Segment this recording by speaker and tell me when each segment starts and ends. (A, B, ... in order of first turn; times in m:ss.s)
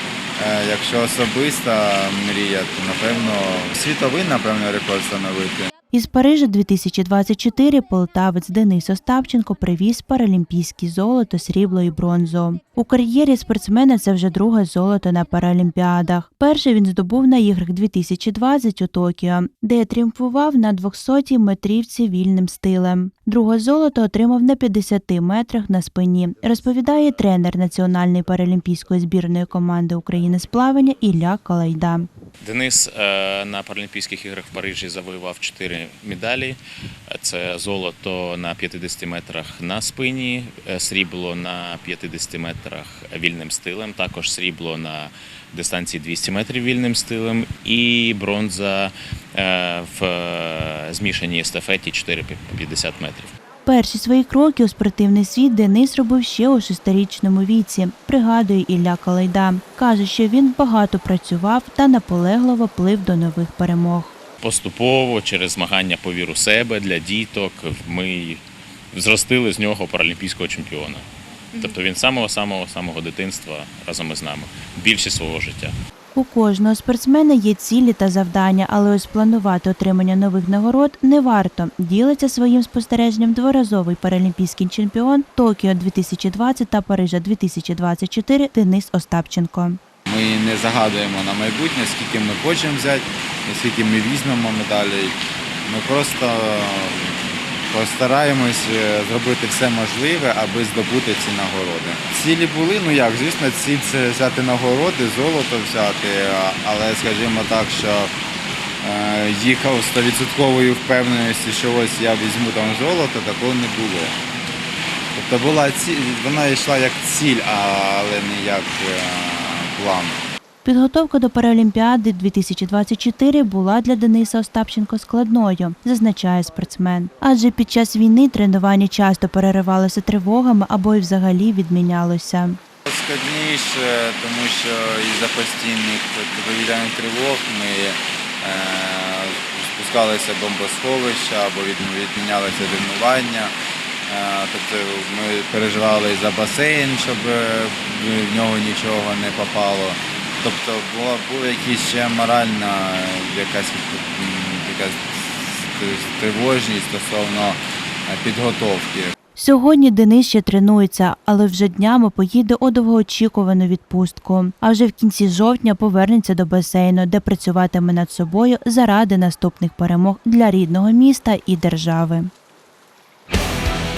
0:00.4-0:05.7 A
0:05.9-0:32.1 B
0:32.4-0:53.3 C
0:53.6-1:04.1 B
1:04.4-1:15.7 C
1:16.2-1:29.8 B
1:30.1-1:37.2 A
1:37.7-1:48.1 A
1:48.8-1:54.2 A
1:55.1-2:00.2 A
2:00.6-2:12.6 B
2:12.9-2:23.5 A
2:24.1-2:39.1 A
2:39.4-2:52.3 B